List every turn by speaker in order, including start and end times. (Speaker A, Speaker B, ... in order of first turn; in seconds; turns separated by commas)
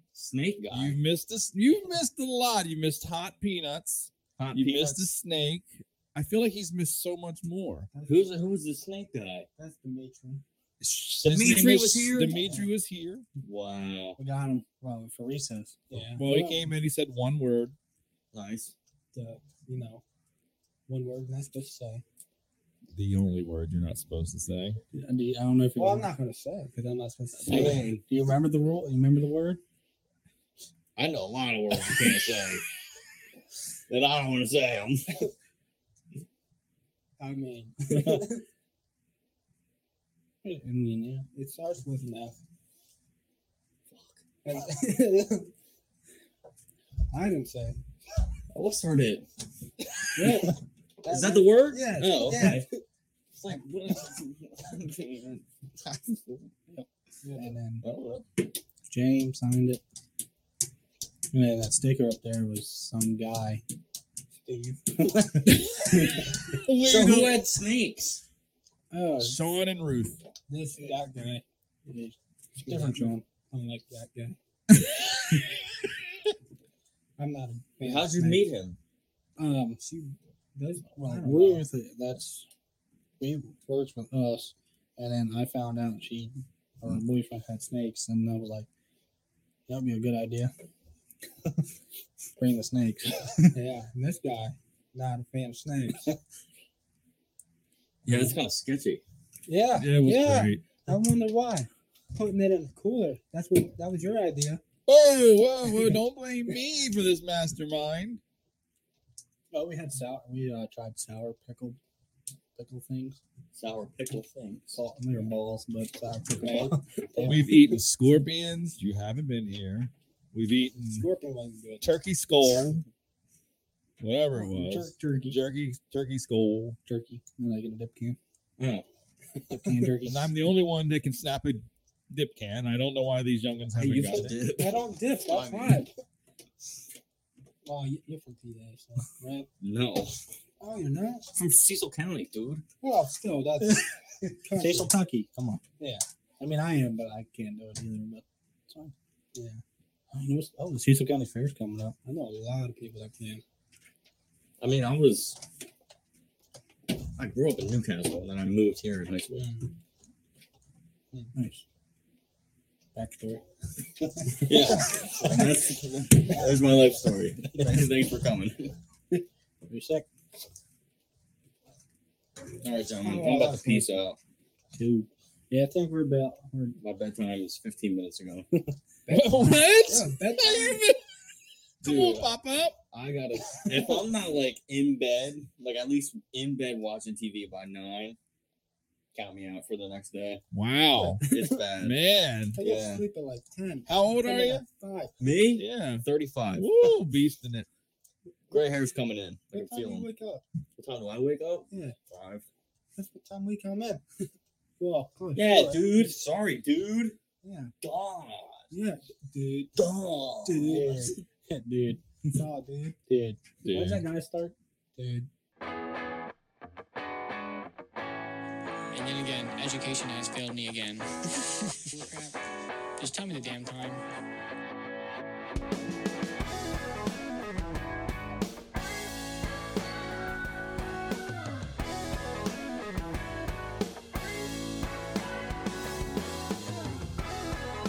Speaker A: 0.1-1.0, Speaker B: 0.7-7.9, Speaker A: 4.4-5.1, Speaker C: 7.9-8.4, Speaker A: 8.1-9.5, Speaker C: 9.6-10.4, Speaker B: 10.8-13.3, Speaker A: 11.2-12.4, Speaker A: 13.4-14.2, Speaker D: 14.2-15.8, Speaker C: 15.9-16.6, Speaker B: 15.9-17.8, Speaker A: 18.3-18.7, Speaker C: 19.1-20.0, Speaker C: 20.9-22.0, Speaker B: 22.9-24.8, Speaker D: 24.9-26.1, Speaker C: 25.8-27.9, Speaker A: 27.5-28.0, Speaker D: 27.5-29.6, Speaker A: 31.0-32.6, Speaker A: 33.9-35.2, Speaker C: 37.2-38.4, Speaker D: 37.9-38.2, Speaker D: 40.4-41.3, Speaker C: 41.3-42.4, Speaker A: 43.9-44.2, Speaker C: 44.5-45.5, Speaker C: 47.1-47.8, Speaker A: 48.5-49.3, Speaker C: 50.1-52.7, Speaker A: 51.1-52.7, Speaker A: 53.3-56.5, Speaker D: 56.7-57.6, Speaker C: 57.2-57.8, Speaker A: 57.8-58.2, Speaker D: 58.9-59.8, Speaker D: 61.3-63.6, Speaker C: 64.5-65.4, Speaker D: 65.0-66.3, Speaker B: 66.5-67.5, Speaker A: 66.5-68.2, Speaker D: 68.9-69.4, Speaker B: 69.2-70.2, Speaker C: 70.5-71.4, Speaker D: 70.8-71.2, Speaker D: 71.9-73.2, Speaker C: 72.7-74.4, Speaker B: 74.7-76.0, Speaker C: 77.2-78.4, Speaker A: 77.8-78.8, Speaker D: 79.4-79.8, Speaker C: 79.8-81.7, Speaker D: 81.0-82.5, Speaker D: 83.2-88.7, Speaker D: 89.7-90.5, Speaker D: 92.4-93.5, Speaker C: 93.5-96.1, Speaker A: 98.1-99.0, Speaker D: 98.1-98.3, Speaker C: 99.5-104.6, Speaker B: 99.8-100.7, Speaker B: 104.9-108.2, Speaker D: 109.5-111.8, Speaker D: 112.6-113.2, Speaker A: 113.5-114.8, Speaker D: 114.7-117.6, Speaker C: 116.5-117.5, Speaker B: 117.2-121.1, Speaker C: 120.9-121.8, Speaker B: 121.8-122.8, Speaker B: 124.0-126.8, Speaker D: 124.3-125.4, Speaker D: 126.9-128.2, Speaker A: 128.6-128.8, Speaker D: 129.5-130.3, Speaker B: 130.1-134.4, Speaker A: 133.8-135.8, Speaker C: 134.4-135.9, Speaker C: 137.7-139.5, Speaker A: 139.6-140.2, Speaker C: 140.6-141.3, Speaker A: 141.3-142.6, Speaker C: 142.8-144.9, Speaker D: 144.6-145.6, Speaker D: 146.4-148.9, Speaker C: 149.3-149.6, Speaker D: 150.1-152.0, Speaker C: 152.1-153.4, Speaker A: 154.6-155.4, Speaker A: 157.2-159.5, Speaker D: 161.3-161.6, Speaker D: 162.9-163.4, Speaker D: 164.3-164.8, Speaker A: 164.5-168.8, Speaker D: 169.7-170.1, Speaker A: 172.6-174.2, Speaker C: 173.0-173.9, Speaker D: 174.8-176.8, Speaker A: 176.8-178.5, Speaker C: 179.1-180.8, Speaker B: 179.1-181.0, Speaker B: 181.8-182.8, Speaker A: 181.8-182.3, Speaker A: 182.9-188.2, Speaker A: 189.2-190.4, Speaker B: 190.5-191.3, Speaker A: 191.2-192.0, Speaker B: 191.8-192.6, Speaker C: 192.6-195.1, Speaker A: 192.6-193.0, Speaker B: 193.9-194.7, Speaker A: 195.2-196.7, Speaker B: 195.6-196.0, Speaker B: 196.6-197.7, Speaker A: 198.5-200.1, Speaker C: 199.5-200.4, Speaker A: 200.8-202.4, Speaker C: 201.7-201.9, Speaker C: 203.0-204.0, Speaker C: 204.8-206.1, Speaker A: 205.3-207.2, Speaker C: 207.4-207.7, Speaker A: 207.8-208.7, Speaker C: 208.7-209.8, Speaker A: 209.8-211.2, Speaker C: 210.5-211.2, Speaker D: 211.5-212.0, Speaker C: 212.2-213.0, Speaker D: 213.1-214.5, Speaker B: 213.6-214.1, Speaker C: 215.0-215.3, Speaker E: 218.9-222.4, Speaker E: 223.0-224.0